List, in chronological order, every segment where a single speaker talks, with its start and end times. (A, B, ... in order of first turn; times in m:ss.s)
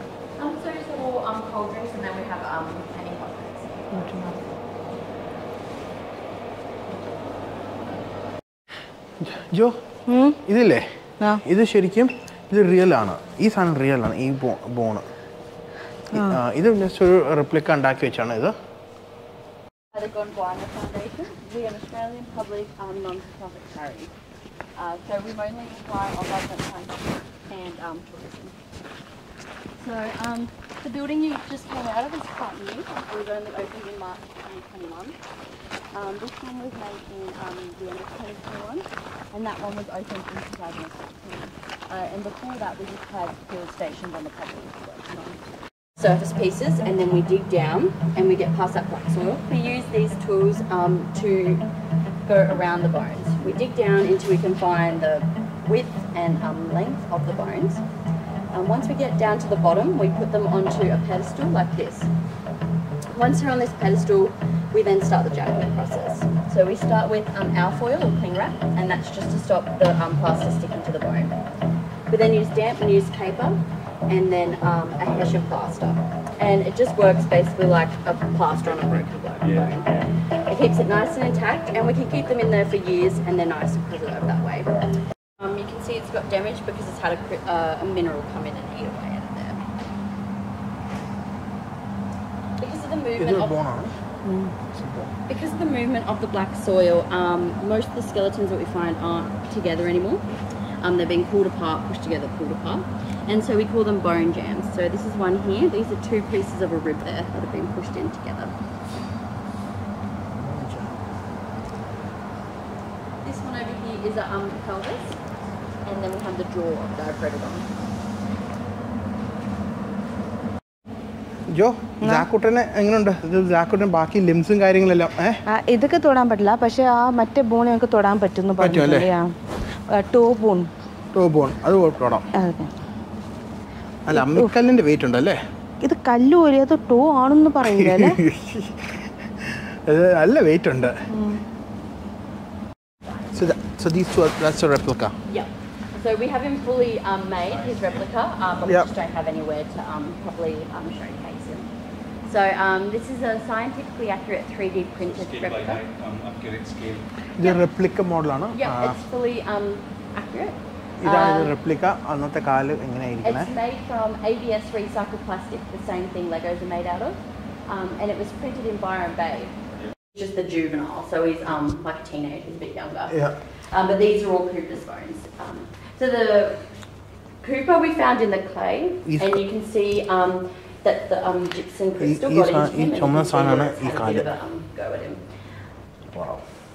0:00.4-0:04.4 A
0:03.9-0:04.3 B
0:09.2-0:09.8 C
0:10.1-0:10.4 B
0:10.4-0:15.0 C
0:16.1-0:18.5 C
0:16.1-0:16.4 B
0:19.9-0:24.1 A
0:24.8-0:28.6 A
0:29.8-0:35.2 A
0:35.9-0:45.4 A
0:46.0-0:51.6 A
0:52.2-0:57.8 A
0:58.5-1:02.1 A
1:03.1-1:11.4 A
1:12.1-1:24.7 A
1:25.4-1:29.6 A
1:32.6-1:33.6 A
1:33.2-1:33.9 C
1:34.2-1:34.5 B
1:34.7-1:35.1 C
1:35.3-1:40.2 A
1:40.8-1:48.5 A
1:50.3-1:51.0 C
1:53.2-1:55.2 A
1:55.8-1:57.7 A
2:01.5-2:05.4 C
2:05.5-2:09.3 B
2:08.6-2:09.1 C
2:09.9-2:10.7 B
2:11.1-2:12.3 C
2:12.4-2:12.7 B
2:14.0-2:15.4 C
2:14.1-2:14.5 B
2:15.8-2:18.2 B
2:17.6-2:21.0 C
2:21.1-2:21.4 B
2:23.3-2:25.1 C
2:25.3-2:31.7 A
2:27.5-2:28.0 D
2:32.2-2:35.8 A
2:35.0-2:37.0 D
2:37.4-2:39.0 C
2:38.5-2:41.5 A
2:41.0-2:43.5 C
2:43.2-2:49.6 A
2:50.1-2:56.6 A
2:57.4-3:05.2 A
2:59.0-2:59.4 C
3:02.0-3:04.3 C
3:06.1-3:06.4 C